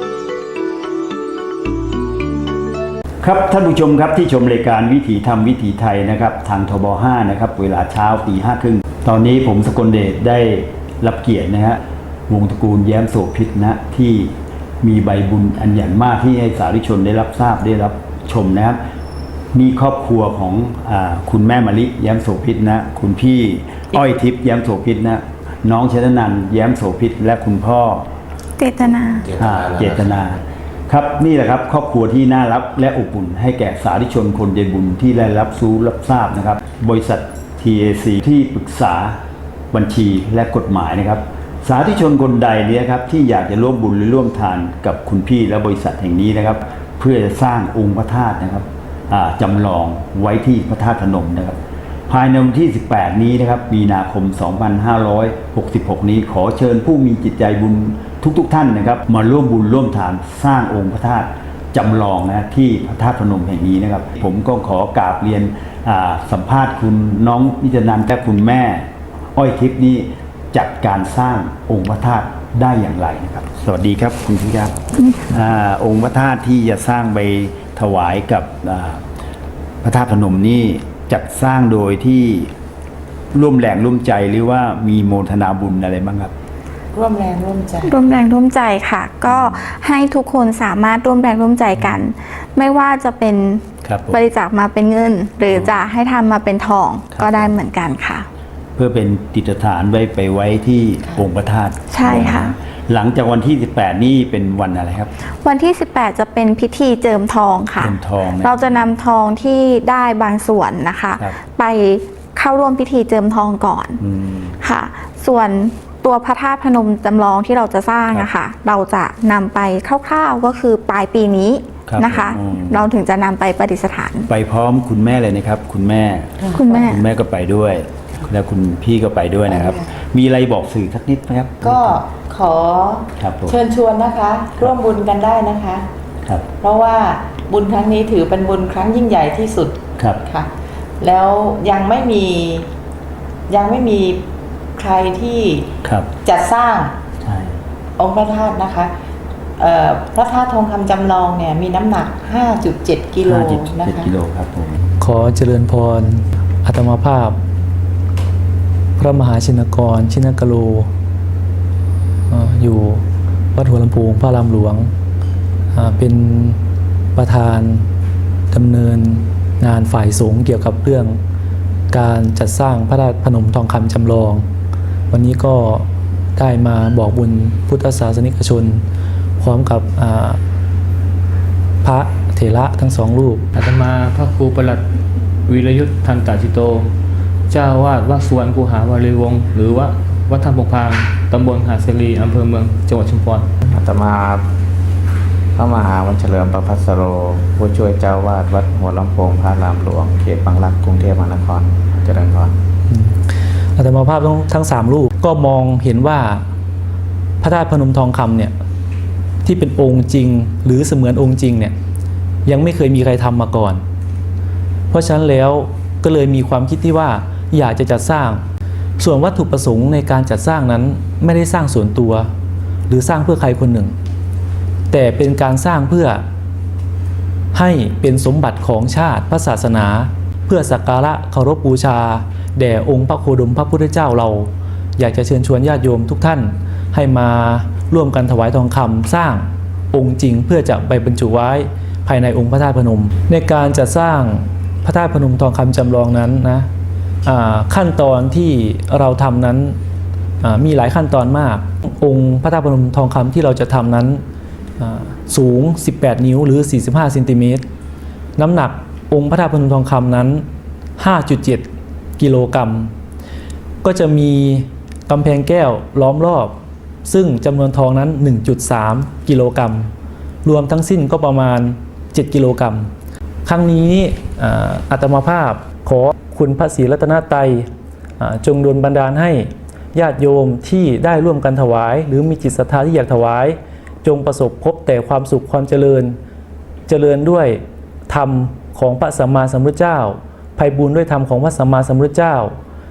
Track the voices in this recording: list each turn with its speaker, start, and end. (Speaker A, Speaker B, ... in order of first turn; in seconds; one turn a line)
Speaker A: 3.2-18.8
Speaker A: 19.5-28.1
Speaker B: 28.6-29.2
Speaker C: 29.2-30.2
Speaker A: 29.4-39.2
Speaker A: 39.7-51.6
Speaker A: 52.1-79.0
Speaker A: 79.8-82.5
Speaker A: 83.3-86.3
Speaker D: 87.0-87.9
Speaker B: 87.8-98.2
Speaker A: 89.2-89.7
Speaker A: 93.8-94.2
Speaker A: 95.5-95.7
Speaker A: 97.1-97.5
Speaker A: 98.8-105.1
Speaker B: 101.9-102.5
Speaker B: 105.4-114.0
Speaker A: 107.8-108.6
Speaker A: 114.0-114.6
Speaker B: 114.6-124.3
Speaker A: 121.8-122.9
Speaker A: 124.3-132.0
Speaker B: 126.5-127.0
Speaker D: 131.7-135.8
Speaker A: 133.2-133.6
Speaker A: 136.2-136.5
Speaker D: 136.6-139.8
Speaker A: 140.0-140.2
Speaker D: 141.0-142.6
Speaker D: 143.5-144.2
Speaker D: 144.8-145.7
Speaker A: 145.8-146.1
Speaker D: 146.2-146.9
Speaker A: 147.2-147.6
Speaker D: 148.0-148.9
Speaker D: 149.6-154.1
Speaker A: 153.2-154.8
Speaker E: 155.0-157.4
Speaker E: 159.0-160.9
Speaker E: 162.3-163.0
Speaker E: 163.5-164.9
Speaker E: 165.7-166.6
Speaker E: 167.1-167.8
Speaker E: 168.5-171.2
Speaker E: 171.9-174.4
Speaker E: 175.1-178.8
Speaker E: 179.4-180.4
Speaker E: 181.8-183.4
Speaker F: 183.5-184.8
Speaker F: 185.5-186.9
Speaker F: 187.5-193.5
Speaker C: 193.7-194.4
Speaker C: 195.6-202.5
Speaker E: 202.9-203.2
Speaker E: 203.8-206.4
Speaker E: 207.4-208.5
Speaker E: 209.4-211.7
Speaker E: 212.4-213.8
Speaker E: 214.9-218.4
Speaker E: 219.0-222.3
Speaker E: 222.9-223.9
Speaker E: 224.9-226.2
Speaker E: 227.5-246.7
Speaker E: 247.2-249.8
Speaker E: 250.4-254.2
Speaker E: 254.8-257.6
Speaker E: 258.4-260.4
Speaker E: 261.0-261.7
Speaker E: 262.2-262.9
Speaker E: 263.8-269.9
Speaker E: 270.4-272.9
Speaker E: 273.4-286.2
Speaker E: 286.9-292.6